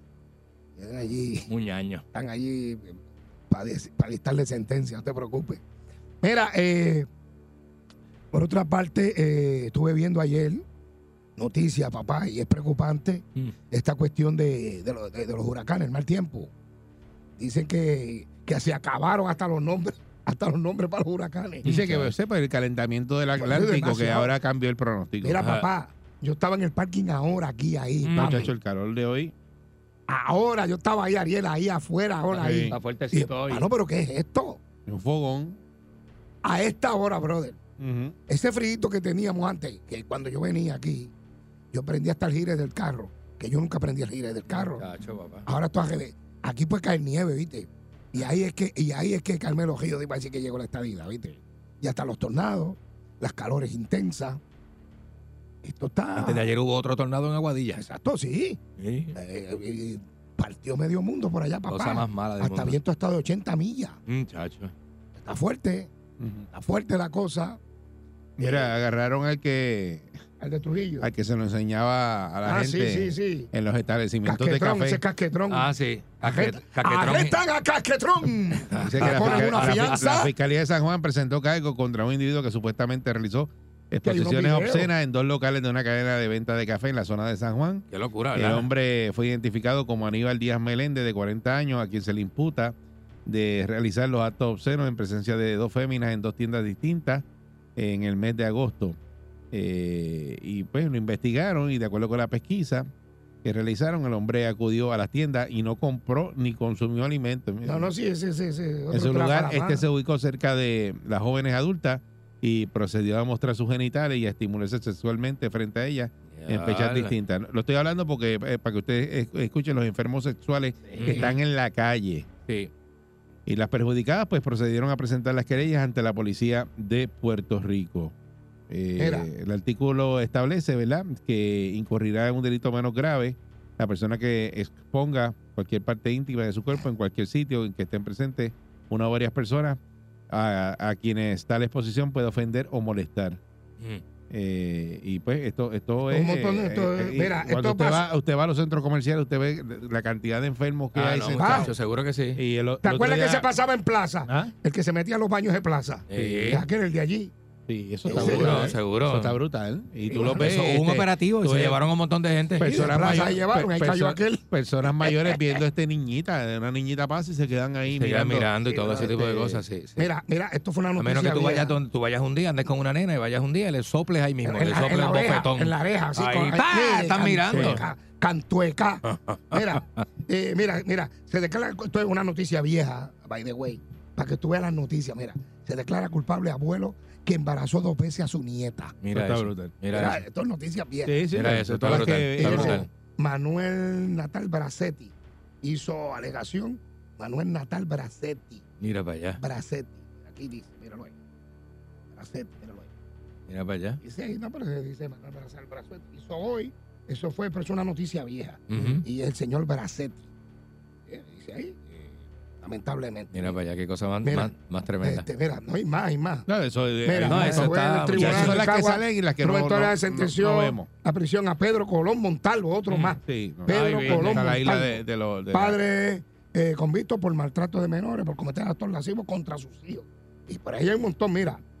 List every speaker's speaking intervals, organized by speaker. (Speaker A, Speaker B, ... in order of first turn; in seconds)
Speaker A: 0.8-1.5, 2.1-3.0, 3.5-5.6, 6.2-7.1, 8.3-10.6, 11.4-16.5, 17.4-21.7, 23.4-24.3, 25.2-28.5, 30.1-34.6, 36.4-37.6, 38.3-41.1, 41.7-44.9, 45.5-54.4, 55.6-56.5, 57.7-58.6, 59.1-64.0, 65.2-65.9, 66.5-67.6, 68.4-68.7, 70.4-71.1, 72.4-73.5, 74.2-80.3, 84.0-84.9, 107.6-109.8, 129.0-129.3, 146.1-148.1, 151.3-151.7, 152.8-157.3, 158.0-158.8, 160.1-160.6, 162.6-164.5, 165.0-165.4, 168.6-171.8, 174.4-188.9, 189.9-191.2, 192.2-198.6, 199.4-201.1, 202.1-202.9, 204.0-210.2, 211.1-213.6, 214.2-216.5, 217.0-231.6
Speaker B: 1.5-2.0, 21.6-22.1, 25.4-25.7, 28.0-28.5, 32.3-33.7, 44.5-45.5, 56.1-57.8, 58.8-59.1, 61.7-62.8, 64.1-64.7, 75.5-77.4, 78.7-80.1, 87.9-88.7, 116.3-117.1, 121.0-121.3, 150.9-152.4, 156.1-156.7, 158.1-159.4, 160.2-163.1, 167.9-170.1, 171.0-177.8, 179.0-180.0, 189.0-190.2, 191.3-192.9, 198.8-199.4, 203.5-204.0, 208.7-209.0, 213.3-215.3, 217.2-218.6, 222.9-223.2, 223.7-224.6
Speaker C: 21.6-25.4, 28.1-29.3, 32.4-32.8, 34.9-35.6, 37.8-38.1, 66.2-66.5, 68.4-70.2, 71.0-75.0, 78.8-92.7, 93.2-97.2, 97.8-99.0, 99.5-102.9, 103.4-107.9, 108.9-122.3, 123.5-128.1, 128.7-139.8, 140.3-143.4, 144.3-151.7, 152.3-153.5, 154.3-154.5, 156.1-156.5, 157.7-161.8, 162.5-168.5, 177.5-177.8, 189.1-190.1, 191.1-192.8, 216.5-220.9, 223.2-225.8